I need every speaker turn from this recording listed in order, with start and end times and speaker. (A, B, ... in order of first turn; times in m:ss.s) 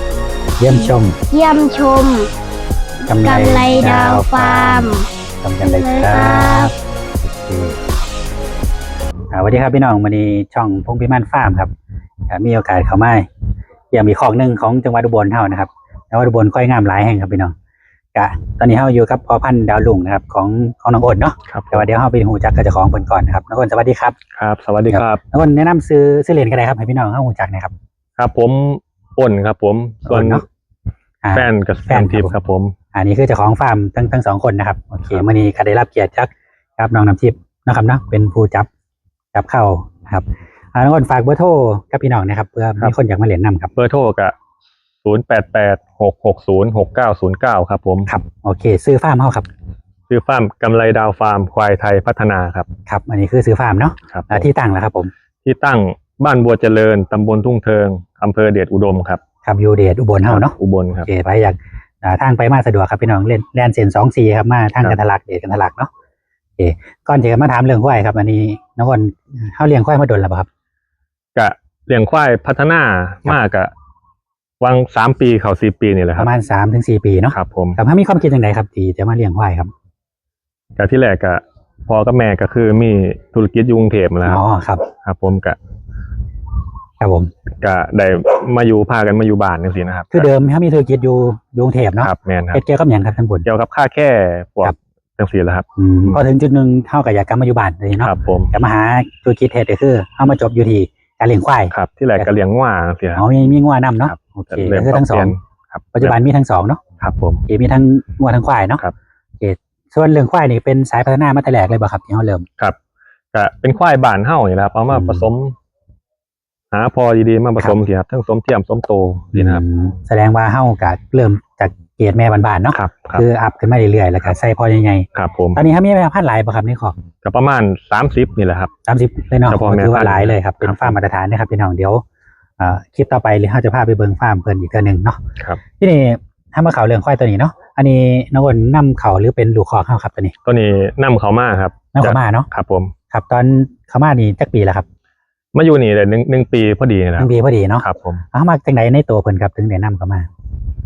0:00.6-0:01.2 A
0:00.8-0:02.3 B
0:03.1-0:04.9 A
0:03.2-0:05.1 B
0:05.4-0:06.7 A
0:05.6-0:06.7 B
0:07.2-0:07.8 A
0:09.3-0:11.7 A
0:12.3-0:13.3 A
0:13.9-0:17.5 A
0:18.2-0:24.2 A
0:21.5-0:21.9 C
0:24.4-0:25.2 C
0:24.9-0:27.7 A
0:28.2-0:30.4 C
0:30.1-0:30.4 A
0:31.2-0:32.3 A
0:31.3-0:32.8 C
0:32.9-0:38.7 A
0:39.3-0:43.7 A
0:43.8-0:44.3 C
0:45.0-0:48.1 C
0:48.1-0:49.5 A
0:50.1-0:52.7 C
0:52.9-0:55.1 A
0:54.1-0:54.5 C
0:55.4-0:59.2 C
0:59.4-1:05.9 A
1:00.3-1:01.1 C
1:06.6-1:10.5 A
1:11.4-1:13.7 C
1:14.6-1:16.3 C
1:16.2-1:19.7 A
1:17.3-1:17.8 C
1:20.8-1:24.4 C
1:24.3-1:24.9 A
1:25.0-1:25.6 C
1:27.0-1:27.3 A
1:27.6-1:30.3 C
1:30.1-1:33.5 A
1:32.0-1:32.6 C
1:33.4-1:36.2 C
1:35.8-1:42.3 A
1:38.0-1:38.5 C
1:41.7-1:43.5 C
1:43.2-1:45.4 A
1:44.0-1:46.2 C
1:46.0-1:46.8 A
1:47.0-1:47.4 C
1:47.5-1:48.8 A
1:49.4-1:52.5 A
1:53.3-1:55.6 C
1:54.9-1:55.2 A
1:56.7-1:59.6 C
1:59.3-2:07.0 A
2:02.7-2:03.2 C
2:05.1-2:05.6 C
2:07.2-2:08.7 C
2:08.9-2:12.0 A
2:09.5-2:11.0 C
2:12.6-2:15.2 A
2:15.8-2:20.4 A
2:20.4-2:22.9 C
2:21.9-2:22.5 A
2:23.1-2:24.9 A
2:25.6-2:27.3 C
2:27.2-2:30.3 A
2:27.8-2:28.2 C